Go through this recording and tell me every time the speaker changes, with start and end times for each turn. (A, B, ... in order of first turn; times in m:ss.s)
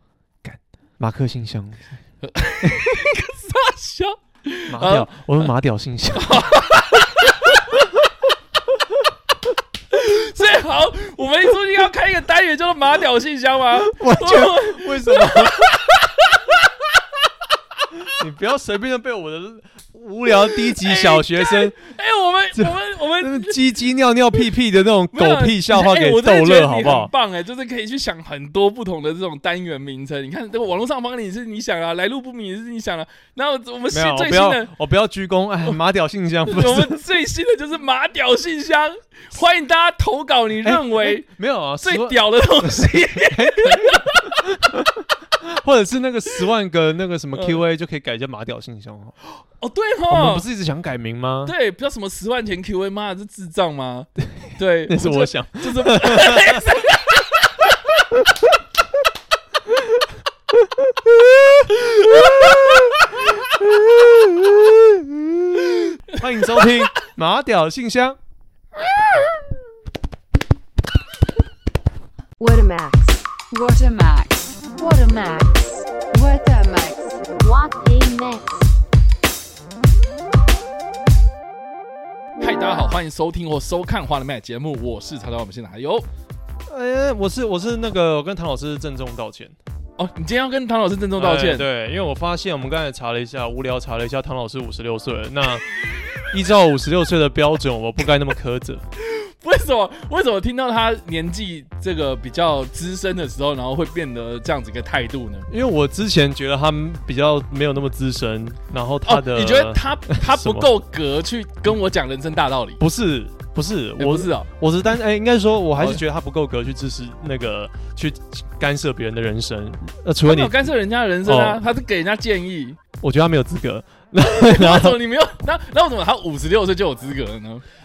0:00.4-0:02.0 A
0:02.2-0:05.5 B
0:02.6-0:03.0 A
0:04.7-0:06.5 A
0:06.2-0:07.9 B
0:09.9-0:16.7 B
0:13.8-0:15.7 A
0:18.1-0:21.8 A
0:20.7-0:23.6 B
0:22.6-0:27.1 A
0:25.1-0:34.7 B
0:33.9-0:37.0 A
0:36.5-0:41.3 B
0:40.6-0:49.2 A
0:41.8-0:44.4 B
0:47.3-0:47.6 B
0:49.6-0:50.4 B
0:50.1-0:51.5 A
0:51.4-0:58.0 B
0:54.4-0:56.7 A
0:58.1-0:58.4 A
0:59.7-1:08.2 A
1:06.1-1:06.7 B
1:12.4-1:18.7 C
1:22.4-1:26.1 B
1:26.7-1:29.6 A
1:30.0-1:31.7 B
1:31.2-1:35.7 A
1:36.2-1:38.8 A
1:39.0-1:45.5 B
1:45.5-1:50.7 A
1:49.0-1:52.8 B
1:52.8-2:00.6 A
1:54.0-1:54.5 B
2:00.2-2:02.8 B
2:01.2-2:01.6 A
2:03.0-2:05.0 A
2:04.2-2:07.6 B